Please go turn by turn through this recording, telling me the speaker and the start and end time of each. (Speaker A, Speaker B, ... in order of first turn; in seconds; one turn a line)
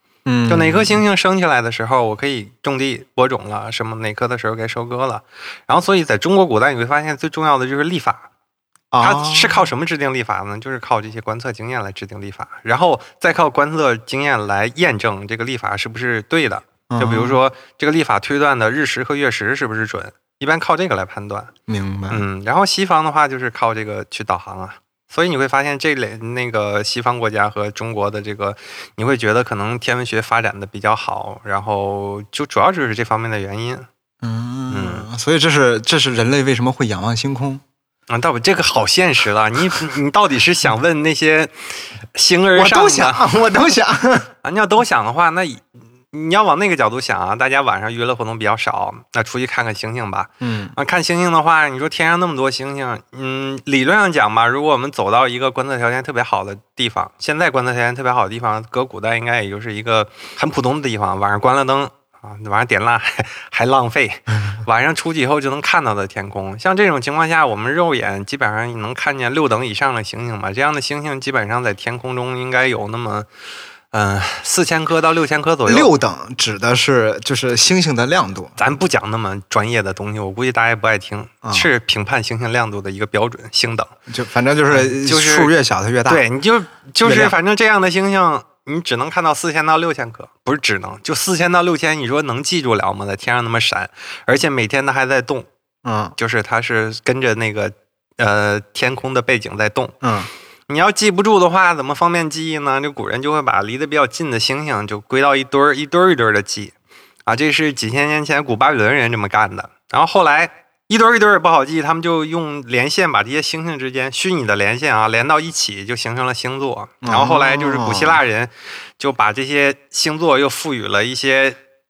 Speaker A: 0.2-1.0
Speaker B: 0.5-8.3
Speaker A: 8.9-9.6
Speaker B: 9.0-21.5
Speaker A: 16.9-17.4
Speaker A: 21.7-22.2
Speaker B: 22.1-33.9
Speaker A: 34.2-37.6
Speaker B: 34.7-35.1
Speaker B: 38.1-43.3
Speaker A: 42.5-44.3
Speaker B: 44.4-73.3
Speaker A: 50.4-50.7
Speaker B: 73.9-75.9
Speaker A: 75.7-78.6
Speaker B: 78.6-83.9
Speaker A: 81.4-81.7
Speaker A: 84.1-86.2
Speaker B: 84.7-85.5
Speaker B: 86.1-95.5
Speaker A: 87.0-87.3
Speaker A: 95.8-96.2
Speaker B: 96.2-100.0
Speaker A: 100.0-100.3
Speaker B: 100.7-106.7
Speaker B: 107.2-121.6
Speaker A: 117.0-118.2